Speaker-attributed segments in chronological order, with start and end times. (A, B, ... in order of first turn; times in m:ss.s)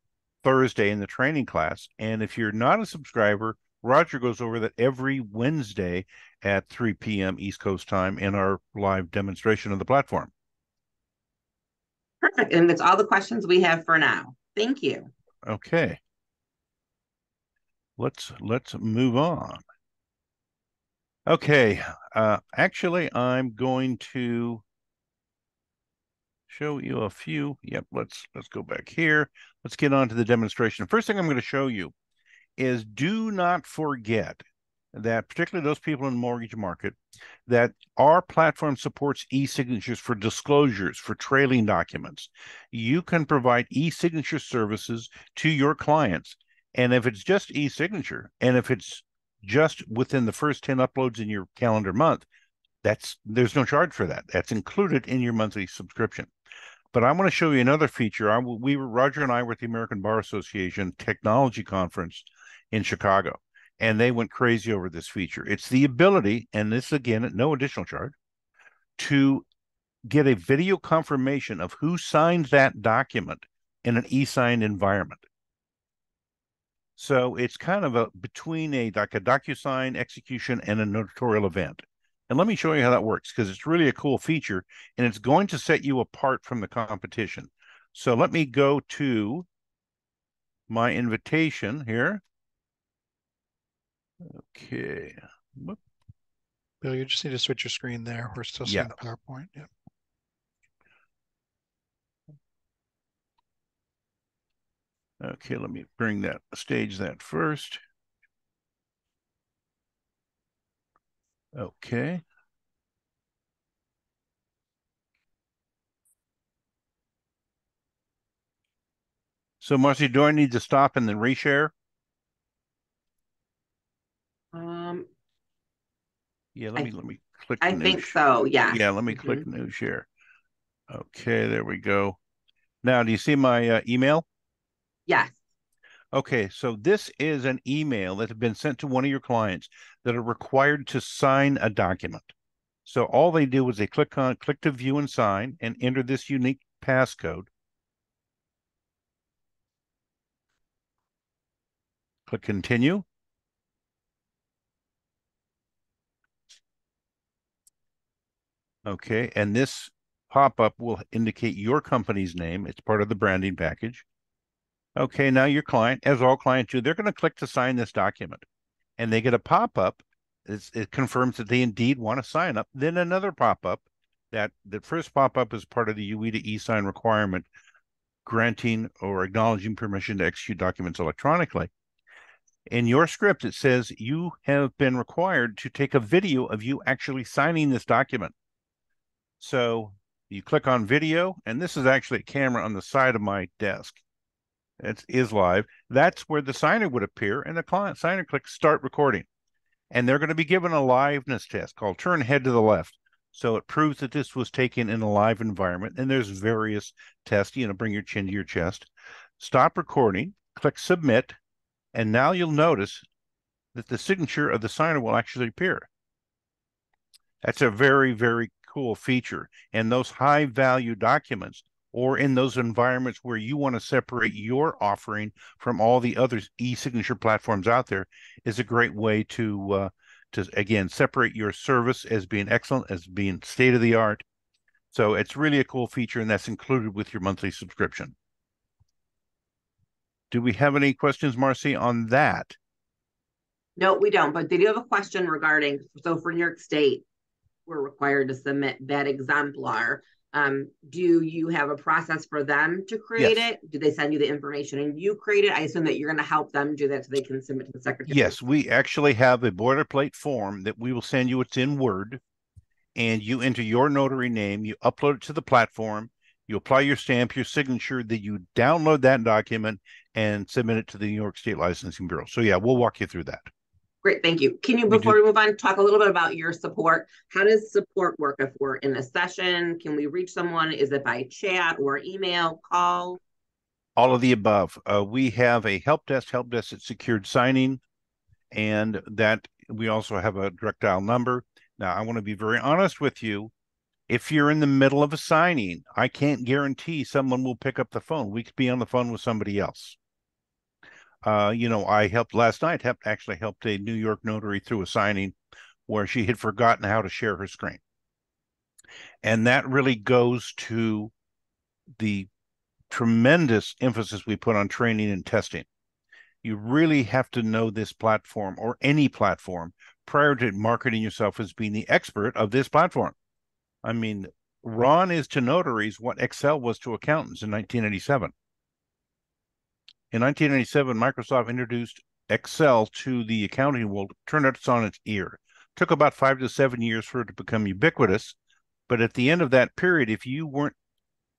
0:00.4-0:10.3 A
0:12.2-0:15.1 B
0:15.4-0:16.0 A
0:18.0-0:19.6 A
0:21.3-0:24.6 A
0:26.5-0:31.9 A
0:32.6-0:52.3 A
0:52.8-0:56.3 A
0:56.9-1:08.2 A
1:09.0-1:09.5 A
1:10.1-1:15.2 A
1:17.0-1:29.5 A
1:30.7-1:32.2 A
1:34.2-1:35.8 A
1:36.8-1:39.7 C
1:38.7-1:38.9 A
1:45.2-1:47.8 A
1:51.5-1:52.2 A
1:59.6-2:01.7 A
2:04.5-2:05.1 B
2:06.6-2:08.2 A
2:07.6-2:09.4 B
2:08.7-2:10.1 A
2:10.9-2:12.2 A
2:12.8-2:14.2 A
2:15.1-2:15.4 B
2:16.1-2:22.3 A
2:22.9-2:27.5 A
2:32.3-2:33.1 A
2:38.8-2:44.0 A
2:45.0-2:48.4 A
2:49.0-2:57.5 A
2:58.2-3:01.7 A
3:02.7-3:08.3 A
3:09.4-3:14.0 A
3:14.8-3:19.3 A
3:19.9-3:31.4 A
3:31.9-3:33.0 A
3:33.7-3:35.9 A
3:37.4-3:54.2 A
3:54.9-3:58.2 A
4:00.3-4:02.6 A
4:03.8-4:07.0 B
4:07.7-4:18.4 B
4:18.1-4:22.2 A
4:23.0-4:33.5 A
4:34.0-4:43.2 B
4:34.9-4:35.2 A
4:44.0-4:47.8 A
4:48.5-4:53.5 A
4:54.1-5:00.0 A
5:01.2-5:05.4 A
5:05.9-5:07.8 A
5:09.2-5:11.1 A
5:12.0-5:12.3 A
5:12.9-5:15.7 A
5:16.4-5:23.2 A
5:23.8-5:28.3 A
5:30.1-5:38.4 A
5:38.9-5:40.8 A